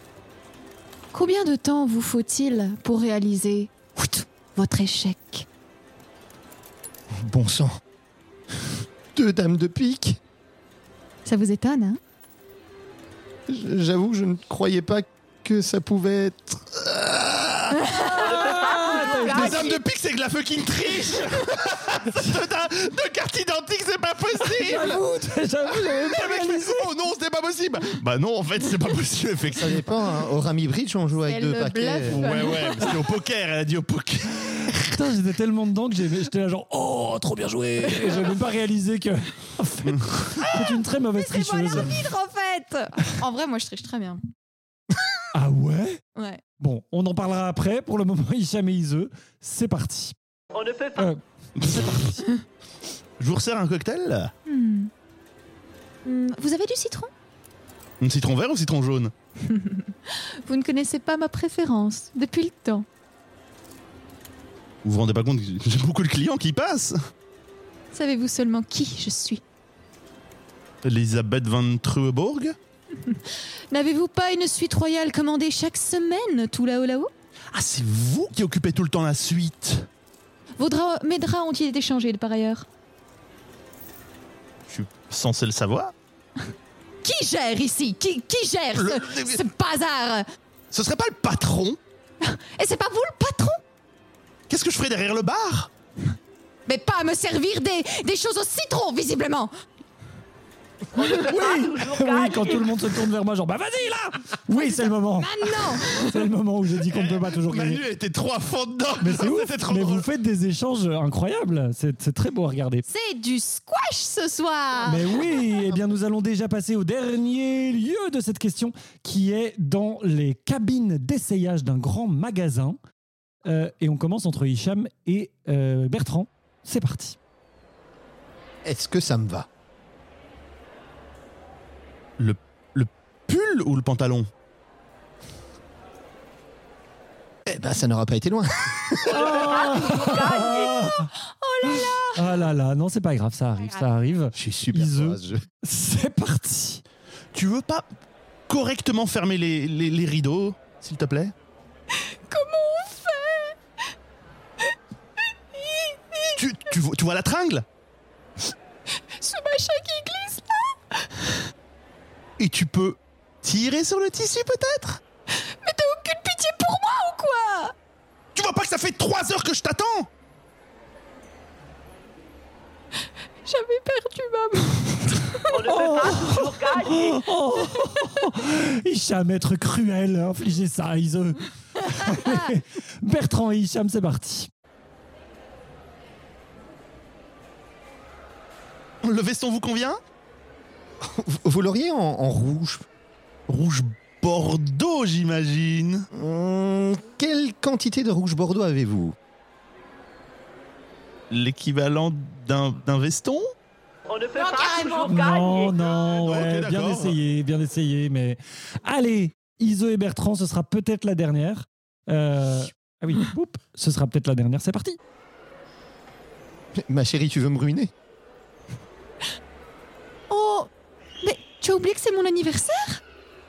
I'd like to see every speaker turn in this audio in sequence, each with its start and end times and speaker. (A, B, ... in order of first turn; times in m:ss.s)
0:01.1-0:05.4 A
0:07.1-0:07.8 B
0:09.1-0:10.2 B
0:11.2-0:12.0 A
0:13.5-0:17.8 B
0:17.7-0:18.4 A
0:18.1-0:19.6 C
0:18.1-0:19.6 D
0:19.2-0:19.8 A
0:19.2-0:25.0 E
0:24.4-0:26.9 D
0:25.7-0:29.8 E
0:29.6-0:32.5 B
0:31.2-0:33.1 A
0:32.0-0:34.8 E
0:34.6-0:42.0 D
0:37.8-0:38.3 A
0:39.8-0:40.6 E
0:41.2-0:44.2 A
0:45.3-0:46.0 D
0:46.1-0:46.4 A
0:46.6-0:50.2 D
0:50.5-0:51.1 C
0:51.0-0:52.2 D
0:51.6-0:51.9 E
0:53.2-0:54.3 E
0:54.4-0:54.9 A
0:56.0-0:57.1 A
0:58.0-0:59.1 E
0:59.4-1:02.8 A
1:04.8-1:07.0 E
1:07.9-1:09.4 A
1:10.8-1:12.6 E
1:13.0-1:17.1 A
1:17.5-1:19.9 E
1:20.6-1:22.6 A
1:24.7-1:25.9 E
1:27.0-1:30.2 A
1:28.7-1:29.4 E
1:30.7-1:31.8 E
1:32.2-1:33.6 A
1:34.5-1:35.7 E
1:36.7-1:39.5 A
1:40.9-1:47.8 D
1:40.9-1:42.8 C
1:44.5-1:46.3 A
1:46.9-1:50.0 E
1:49.0-1:52.8 D
1:52.9-1:55.5 A
1:54.8-2:02.8 D
2:03.4-2:07.2 D
2:08.6-2:09.5 B
2:12.2-2:14.3 E
2:17.4-2:19.3 B
2:19.0-2:20.9 C
2:19.1-2:21.1 D
2:21.1-2:22.4 A
2:22.1-2:26.8 D
2:24.3-2:25.4 B
2:27.3-2:27.8 E
2:28.5-2:31.3 E
2:31.9-2:33.6 A
2:35.5-2:36.4 A
2:36.4-2:37.6 E
2:39.1-2:41.5 A
2:42.4-2:45.0 E
2:45.3-2:47.7 A
2:48.3-2:50.1 E
2:53.4-2:55.6 A
2:55.5-2:57.2 C
2:55.6-3:04.5 D
2:57.6-2:58.1 A
3:02.0-3:02.4 A
3:09.0-3:10.0 E
3:11.0-3:12.8 B
3:13.5-3:16.0 E
3:16.1-3:19.1 B
3:21.3-3:23.5 E
3:24.1-3:26.0 C
3:24.4-3:25.1 A
3:25.0-3:35.0 D
3:26.0-3:27.2 E
3:36.8-3:37.9 B
3:40.3-3:40.7 A
3:41.2-3:43.0 A